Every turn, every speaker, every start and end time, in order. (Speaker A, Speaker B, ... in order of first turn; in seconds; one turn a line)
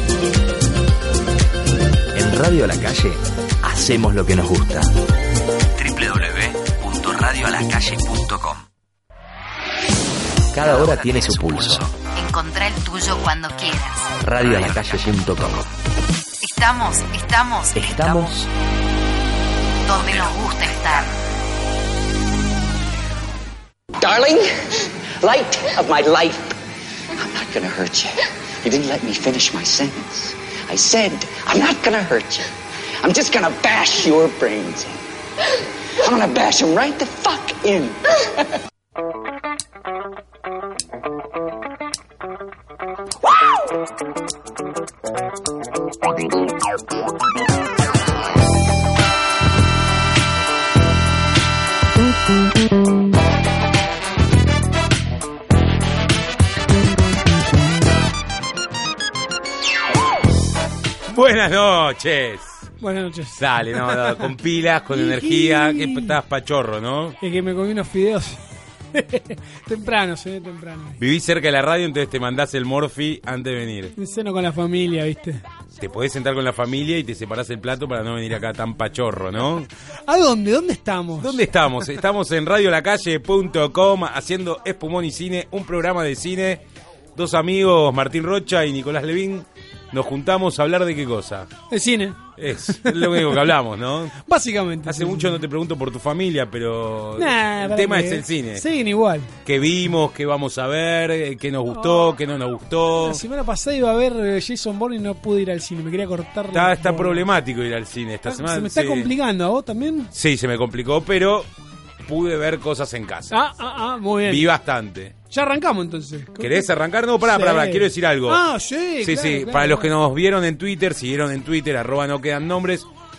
Speaker A: 2.1-4.9
Speaker A: 5.8-8.7
Speaker A: 10.5-11.9
Speaker B: 10.7-15.1
Speaker A: 14.2-15.7
Speaker B: 16.4-18.4
Speaker A: 17.8-18.5
Speaker B: 19.9-21.1
Speaker A: 19.9-21.1
Speaker C: 24.0-26.6
Speaker C: 27.1-38.5
Speaker D: 61.1-62.7
Speaker E: 62.8-64.3
Speaker D: 63.4-67.2
Speaker E: 64.9-66.2
Speaker E: 67.2-68.4
Speaker E: 68.9-71.0
Speaker D: 71.0-74.0
Speaker E: 74.0-75.4
Speaker D: 75.8-79.7
Speaker E: 80.1-81.5
Speaker D: 81.2-86.6
Speaker D: 87.2-91.5
Speaker E: 91.7-93.5
Speaker D: 92.4-94.2
Speaker E: 94.2-95.4
Speaker D: 94.8-98.6
Speaker E: 97.2-99.3
Speaker D: 99.5-103.2
Speaker E: 101.7-102.1
Speaker E: 103.0-107.3
Speaker D: 106.5-109.1
Speaker E: 108.3-110.1
Speaker D: 110.1-111.5
Speaker D: 112.0-113.4
Speaker E: 113.3-114.5
Speaker D: 114.2-115.2
Speaker E: 115.3-116.7
Speaker D: 116.4-118.5
Speaker E: 117.2-119.9
Speaker D: 119.0-122.9